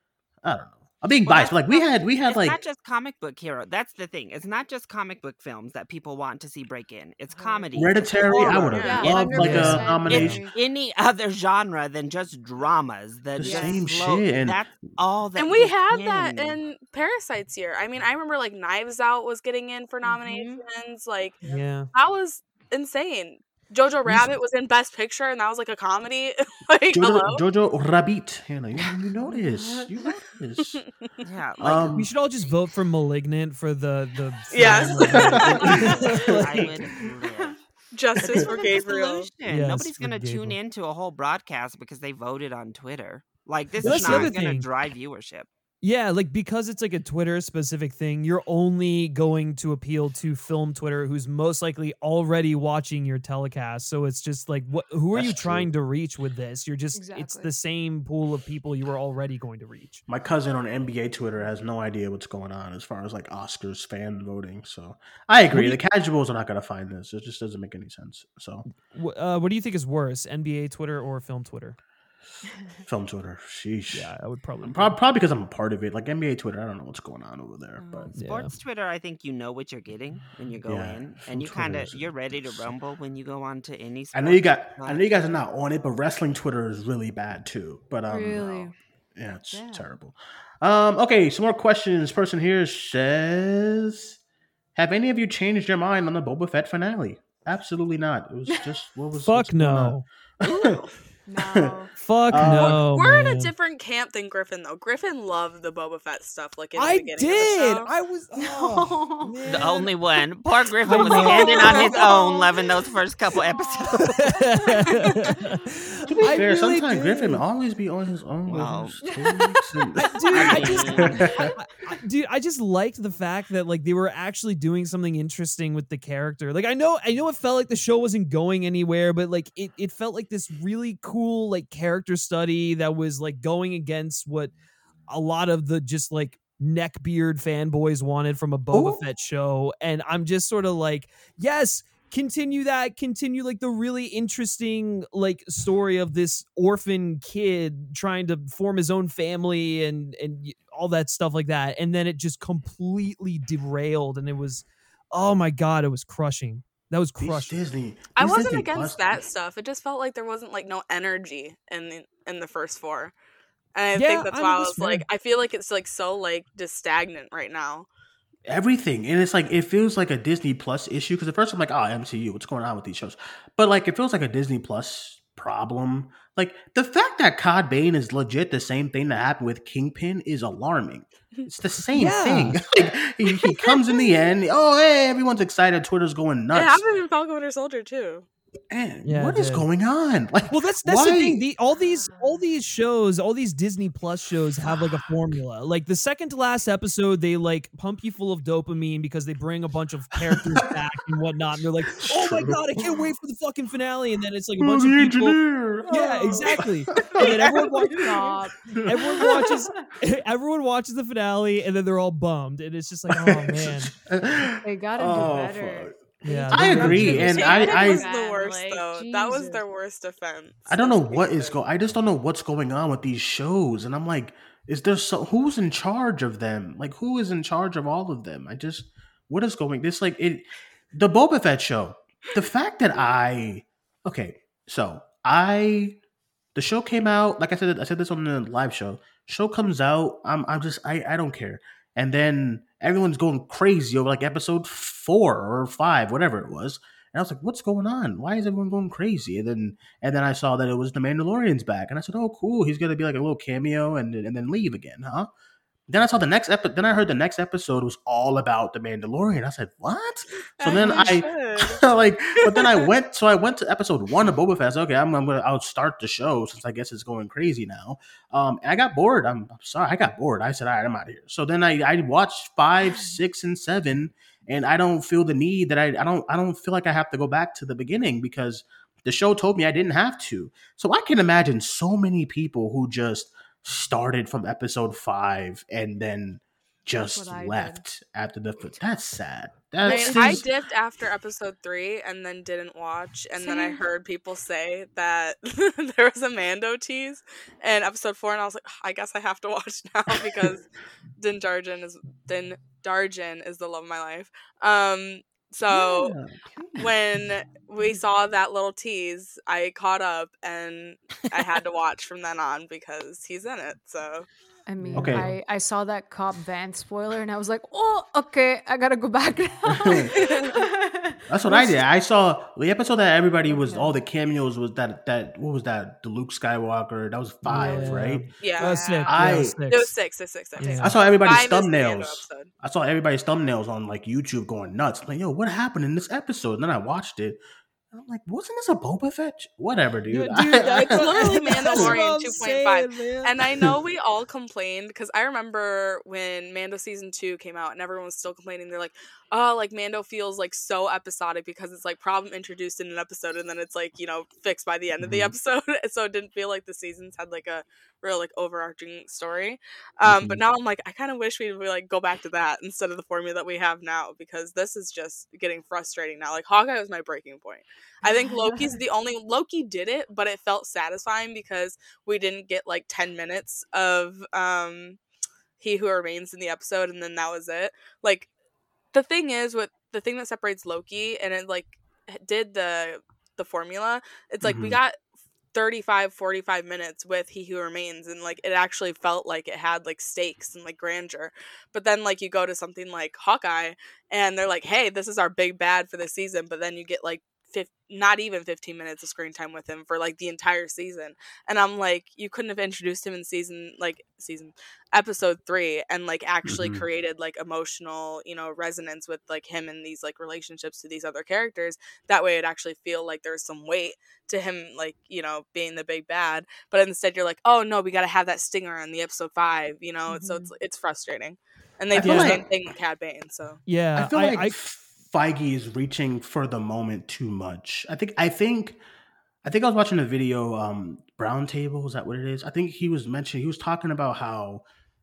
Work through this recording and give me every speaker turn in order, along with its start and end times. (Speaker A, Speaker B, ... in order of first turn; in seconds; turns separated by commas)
Speaker A: 0.4-2.6, Speaker B: 1.2-16.6, Speaker C: 7.3-10.6, Speaker A: 7.7-10.4, Speaker D: 8.3-10.3, Speaker E: 8.7-9.3, Speaker A: 13.4-14.6, Speaker C: 13.4-13.8, Speaker E: 15.4-27.4, Speaker C: 20.0-20.6, Speaker D: 21.4-21.9, Speaker A: 24.0-24.3, Speaker A: 26.9-30.8, Speaker C: 29.3-29.9, Speaker B: 31.2-32.0, Speaker A: 31.6-32.1, Speaker D: 31.9-37.0, Speaker E: 34.5-35.9, Speaker C: 34.7-35.3, Speaker B: 35.1-37.6, Speaker A: 35.1-35.8, Speaker C: 36.9-37.5, Speaker E: 37.9-39.3, Speaker B: 38.2-45.5, Speaker D: 39.4-40.6, Speaker D: 43.8-44.7, Speaker A: 43.9-44.3, Speaker D: 45.8-60.0, Speaker A: 55.1-55.7, Speaker C: 56.9-57.5, Speaker A: 60.1-68.6, Speaker D: 65.5-65.8, Speaker D: 68.7-71.8, Speaker A: 72.8-78.1, Speaker D: 73.9-75.0, Speaker C: 77.8-78.1, Speaker B: 77.8-85.1, Speaker D: 78.1-78.5, Speaker A: 80.7-82.7, Speaker A: 84.1-94.2, Speaker C: 88.1-88.7, Speaker C: 89.5-89.8, Speaker A: 94.7-100.8, Speaker D: 99.2-100.0, Speaker E: 100.4-100.9, Speaker C: 101.3-101.9, Speaker A: 101.4-101.7, Speaker D: 102.0-103.5, Speaker A: 102.3-102.8, Speaker E: 102.4-107.9, Speaker D: 106.8-109.9, Speaker C: 108.3-109.4, Speaker B: 109.4-114.1, Speaker D: 110.8-112.5, Speaker E: 111.0-111.8, Speaker C: 111.0-112.2, Speaker C: 113.3-115.4, Speaker D: 113.9-117.4, Speaker A: 116.1-121.5, Speaker B: 118.5-119.0, Speaker C: 119.0-119.5, Speaker D: 120.0-134.5, Speaker B: 120.3-121.3, Speaker C: 120.7-121.5, Speaker D: 135.1-157.6, Speaker A: 138.7-139.0, Speaker A: 157.2-159.2, Speaker E: 158.1-163.1, Speaker E: 163.7-167.9, Speaker D: 163.9-165.0, Speaker A: 168.5-186.9, Speaker D: 181.9-182.6, Speaker E: 183.3-183.7, Speaker E: 186.5-188.2, Speaker A: 188.7-191.4, Speaker D: 189.0-189.7, Speaker D: 190.5-213.9, Speaker C: 191.7-192.4, Speaker A: 194.6-195.0, Speaker A: 200.3-200.7, Speaker A: 202.0-203.1, Speaker A: 204.6-207.6, Speaker E: 207.2-208.2, Speaker C: 207.9-209.8, Speaker A: 208.7-209.0, Speaker A: 213.1-218.1, Speaker C: 214.6-219.6, Speaker D: 216.2-217.5, Speaker E: 217.1-221.6, Speaker A: 220.7-236.0, Speaker A: 236.5-255.3, Speaker A: 255.9-290.4, Speaker E: 260.6-261.8, Speaker E: 262.4-262.9, Speaker C: 286.9-287.8, Speaker C: 288.6-288.8, Speaker C: 289.8-290.4, Speaker E: 289.8-300.6, Speaker C: 293.4-293.9, Speaker A: 300.1-300.5, Speaker E: 301.2-306.1, Speaker A: 305.6-306.9, Speaker E: 306.8-314.3, Speaker C: 314.7-321.8, Speaker D: 314.8-315.4, Speaker A: 314.9-315.3, Speaker A: 319.7-320.1, Speaker E: 320.1-320.6, Speaker A: 321.3-328.3, Speaker C: 323.4-324.0, Speaker D: 327.4-329.9, Speaker C: 327.5-327.9, Speaker E: 328.4-332.5, Speaker C: 328.6-329.1, Speaker A: 329.1-329.6, Speaker D: 330.6-331.0, Speaker A: 330.8-337.4, Speaker A: 337.9-341.0, Speaker D: 340.1-343.7, Speaker E: 340.7-375.0, Speaker A: 341.7-342.0, Speaker A: 355.0-355.3, Speaker A: 360.0-360.4, Speaker C: 368.0-368.7, Speaker E: 375.6-378.3, Speaker E: 378.9-385.0, Speaker A: 384.4-384.8, Speaker E: 385.5-423.6, Speaker A: 406.4-406.8, Speaker C: 420.1-420.5, Speaker A: 421.9-422.4, Speaker D: 422.0-422.4, Speaker D: 423.6-424.6, Speaker A: 423.9-428.8, Speaker A: 429.4-434.6